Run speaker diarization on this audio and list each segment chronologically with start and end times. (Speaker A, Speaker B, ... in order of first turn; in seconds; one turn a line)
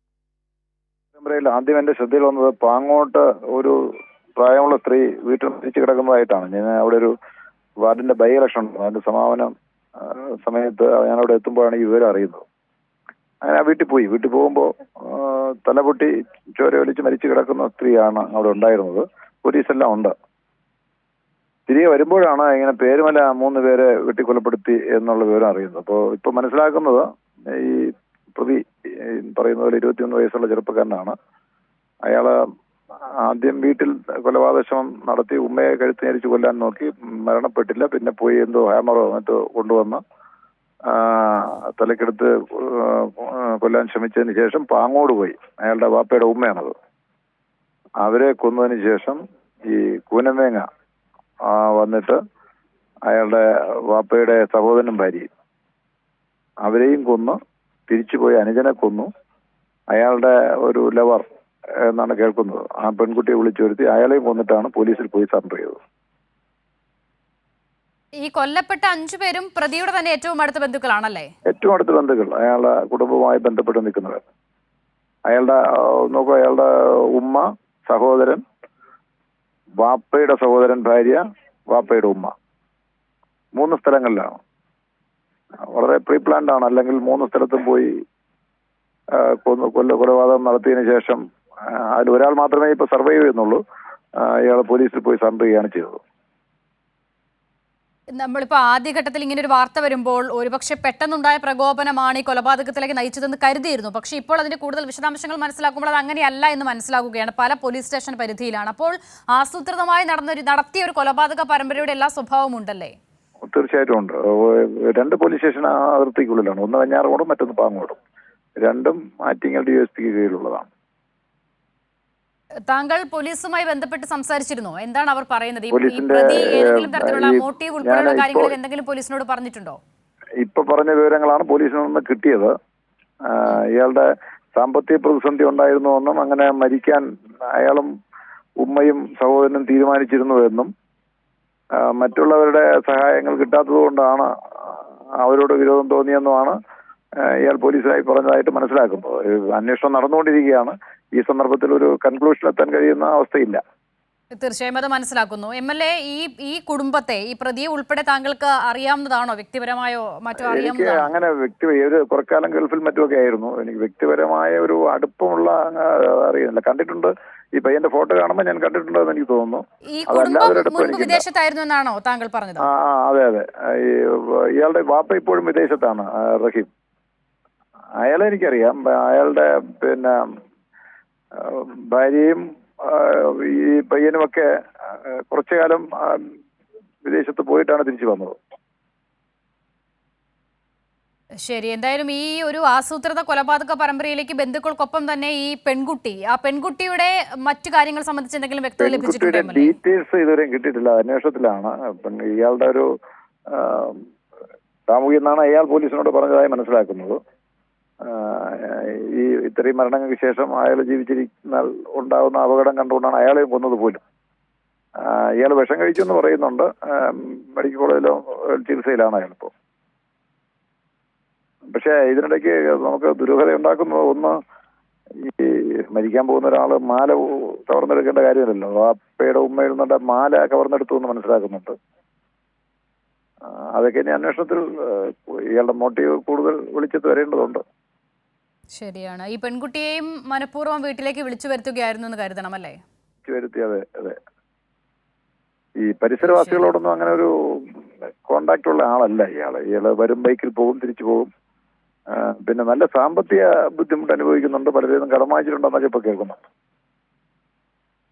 Speaker A: 1.1-3.8
Speaker A: 4.4-7.1
Speaker A: 7.8-12.4
Speaker A: 13.4-20.1
Speaker A: 21.7-31.1
Speaker A: 32.1-32.4
Speaker A: 33.2-40.0
Speaker A: 40.9-46.7
Speaker A: 48.0-50.6
Speaker A: 51.4-52.2
Speaker A: 53.1-55.3
Speaker A: 56.6-57.4
Speaker A: 57.9-59.1
Speaker A: 59.9-61.2
Speaker A: 61.8-65.8
Speaker B: 68.2-71.3
Speaker A: 71.5-74.2
Speaker A: 75.3-78.4
Speaker A: 79.8-81.2
Speaker A: 81.7-82.3
Speaker A: 83.5-84.3
Speaker A: 85.7-87.9
Speaker A: 89.1-93.6
Speaker A: 94.2-96.0
Speaker B: 98.1-112.9
Speaker A: 113.5-118.0
Speaker A: 118.6-120.7
Speaker B: 122.7-129.8
Speaker A: 125.7-128.5
Speaker A: 130.4-132.5
Speaker A: 133.3-137.9
Speaker A: 138.6-140.7
Speaker A: 141.8-146.6
Speaker A: 147.2-153.6
Speaker B: 154.4-161.1
Speaker A: 160.4-171.2
Speaker B: 169.9-172.7
Speaker A: 172.6-176.7
Speaker A: 178.0-180.2
Speaker A: 181.3-184.5
Speaker A: 185.1-186.3
Speaker A: 187.0-188.3
Speaker B: 191.4-199.8
Speaker A: 198.8-202.9
Speaker A: 203.5-204.0
Speaker A: 204.9-207.2
Speaker A: 208.0-214.0
Speaker A: 215.0-219.5
Speaker A: 221.7-224.3
Speaker A: 225.2-231.7
Speaker A: 233.7-237.6
Speaker B: 238.7-242.8
Speaker A: 243.2-244.2
Speaker A: 245.8-251.3
Speaker B: 246.2-246.7
Speaker A: 252.1-256.4